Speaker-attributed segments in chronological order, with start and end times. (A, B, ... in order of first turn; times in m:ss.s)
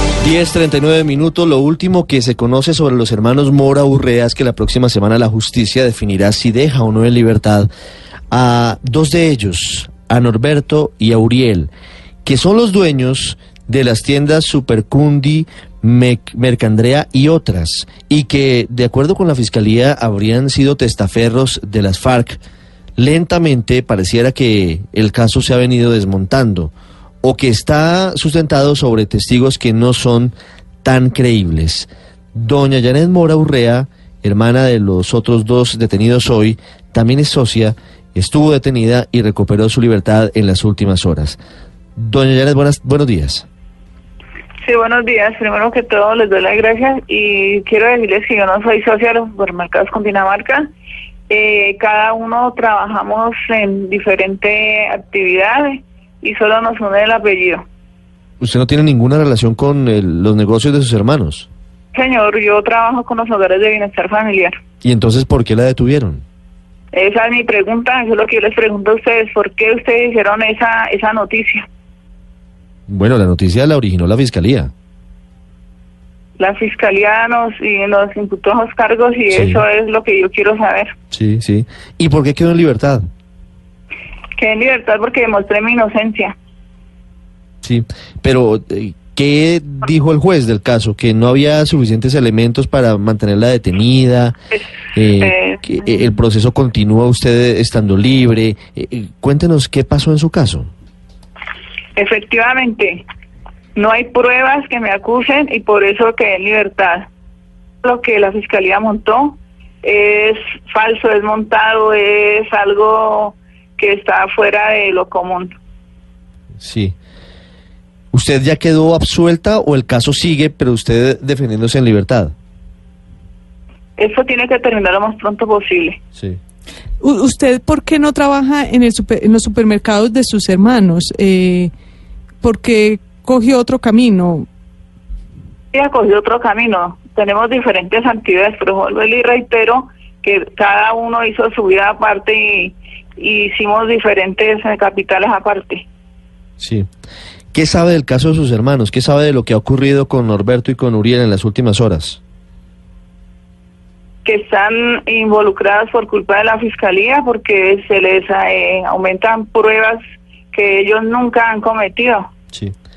0:00.2-0:07.7 A
0:08.3-0:11.7 A
0:12.2-0:22.4 A
0:23.0-0:41.4 A
0:42.0-0:43.4 A
0:44.6-0:50.7 B
0:51.3-0:57.6 B
0:58.4-1:01.5 A
1:01.9-1:04.5 B
1:04.8-1:06.2 A
1:06.9-1:11.7 B
1:12.9-1:14.7 A
1:16.4-1:20.9 B
1:19.3-1:19.6 A
1:21.1-1:23.0 A
1:24.4-1:26.3 B
1:27.6-1:34.4 A
1:34.9-1:40.7 A
1:35.2-1:35.8 B
1:42.0-1:43.0 B
1:43.7-1:47.1 B
1:47.8-1:55.5 B
1:56.6-1:56.9 A
1:58.1-2:02.3 A
2:04.0-2:06.0 B
2:07.0-2:11.7 C
2:12.4-2:14.5 C
2:15.7-2:25.8 B
2:26.6-2:26.9 A
2:27.5-2:32.2 A
2:34.2-2:40.0 B
2:40.5-2:42.3 B